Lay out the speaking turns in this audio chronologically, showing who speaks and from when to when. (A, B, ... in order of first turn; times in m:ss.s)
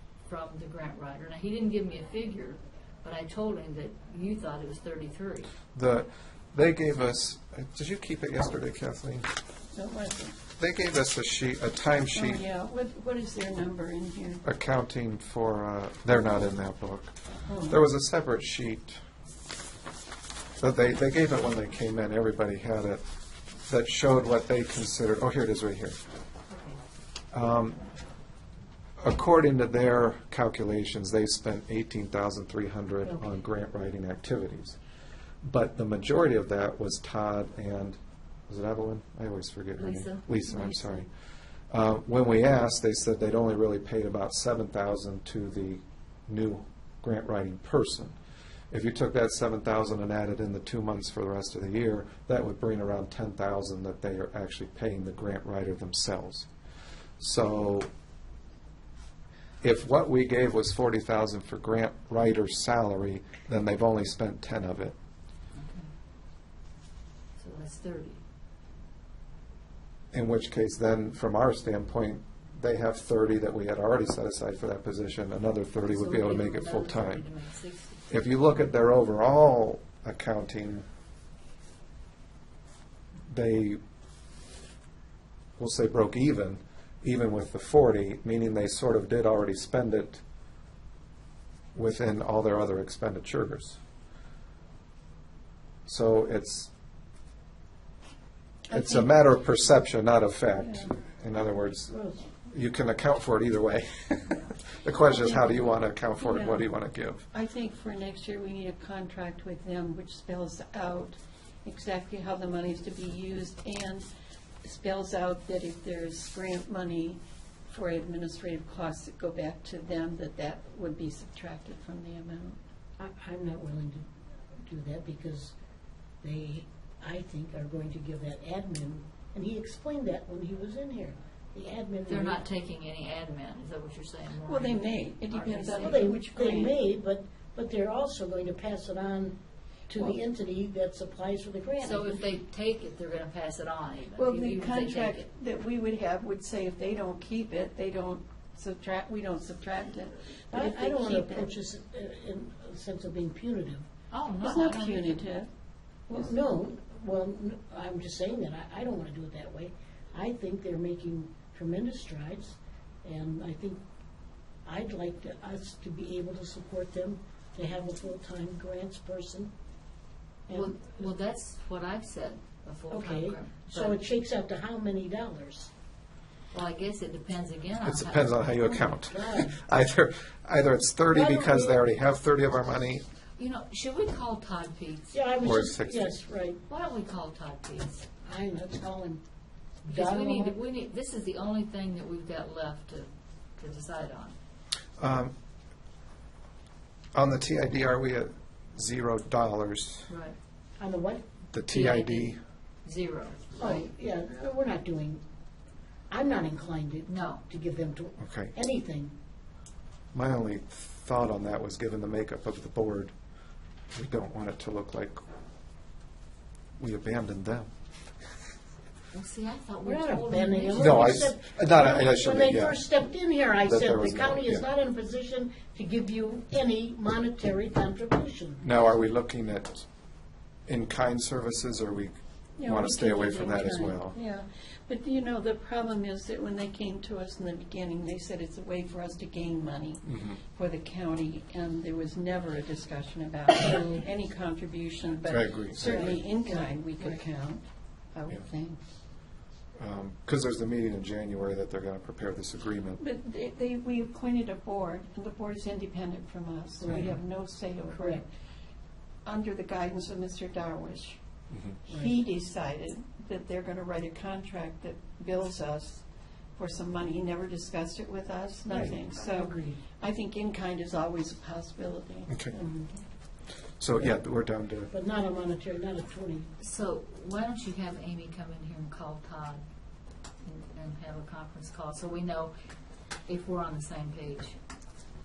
0:00.3-0:05.5 A
0:05.7-0:09.3 B
0:09.7-0:10.4 C
0:10.6-0:12.4 B
0:12.0-0:14.4 C
0:14.4-0:19.0 B
0:17.5-0:17.8 C
0:20.6-0:23.0 B
0:23.6-0:26.0 B
0:27.3-0:27.8 B
0:29.0-0:34.8 B
0:35.4-0:38.0 B
0:38.5-0:41.1 B
0:39.8-0:41.0 A
0:41.7-0:48.1 B
0:48.7-0:56.5 B
0:57.2-0:57.9 B
0:59.6-1:05.0 B
1:05.5-1:05.9 A
1:07.4-1:08.2 A
1:10.1-1:17.2 B
1:15.8-1:18.0 A
1:18.1-1:20.8 B
1:23.3-1:23.8 B
1:25.6-1:30.2 B
1:31.7-1:33.8 B
1:35.8-1:36.7 B
1:38.7-1:39.1 C
1:38.7-1:47.2 B
1:41.9-1:42.2 D
1:45.0-1:46.7 C
1:47.3-1:54.0 C
1:54.6-2:02.6 C
2:03.0-2:04.0 D
2:04.6-2:05.5 D
2:06.2-2:12.4 D
2:12.1-2:16.1 A
2:14.4-2:16.8 C
2:15.8-2:22.2 D
2:21.8-2:25.3 A
2:24.2-2:31.5 C
2:30.5-2:33.8 D
2:34.1-2:35.2 A
2:34.4-2:35.5 C
2:36.1-2:43.8 D
2:44.6-2:49.5 D
2:50.5-2:50.9 D
2:50.5-2:54.0 A
2:52.9-2:55.7 D
2:56.5-2:58.5 A
2:57.8-3:03.0 B
2:59.1-2:59.5 D
3:01.1-3:01.8 D
3:03.4-3:05.2 A
3:05.1-3:06.6 D
3:05.4-3:06.1 B
3:06.6-3:08.0 A
3:08.2-3:09.2 D
3:09.8-3:10.6 D
3:09.9-3:14.3 A
3:15.0-3:15.3 B
3:17.1-3:20.1 B
3:20.1-3:20.4 A
3:20.8-3:21.2 D
3:21.5-3:22.4 B
3:21.7-3:23.8 A
3:23.6-3:25.2 D
3:26.1-3:29.1 D
3:27.1-3:27.4 A
3:28.2-3:28.5 B
3:30.1-3:33.1 B
3:33.9-3:35.2 B
3:36.8-3:37.7 B
3:39.1-3:41.2 A
3:39.8-3:48.6 D
3:40.8-3:42.8 B
3:43.6-3:44.6 B
3:48.6-3:49.9 B
3:50.7-3:54.2 B
3:52.6-4:07.6 C
4:00.1-4:00.4 B
4:03.6-4:04.0 D
4:05.3-4:06.2 B
4:05.8-4:07.2 D
4:08.1-4:08.8 C
4:09.8-4:13.0 B
4:13.0-4:18.3 C
4:16.8-4:17.2 D
4:17.9-4:18.2 D
4:19.2-4:21.2 C
4:21.5-4:21.8 B
4:21.8-4:26.0 C
4:26.6-4:32.7 C
4:28.7-4:29.8 D
4:33.8-4:34.9 B
4:34.9-4:36.5 D
4:36.6-4:39.6 A
4:40.4-4:42.5 A
4:43.3-4:44.6 A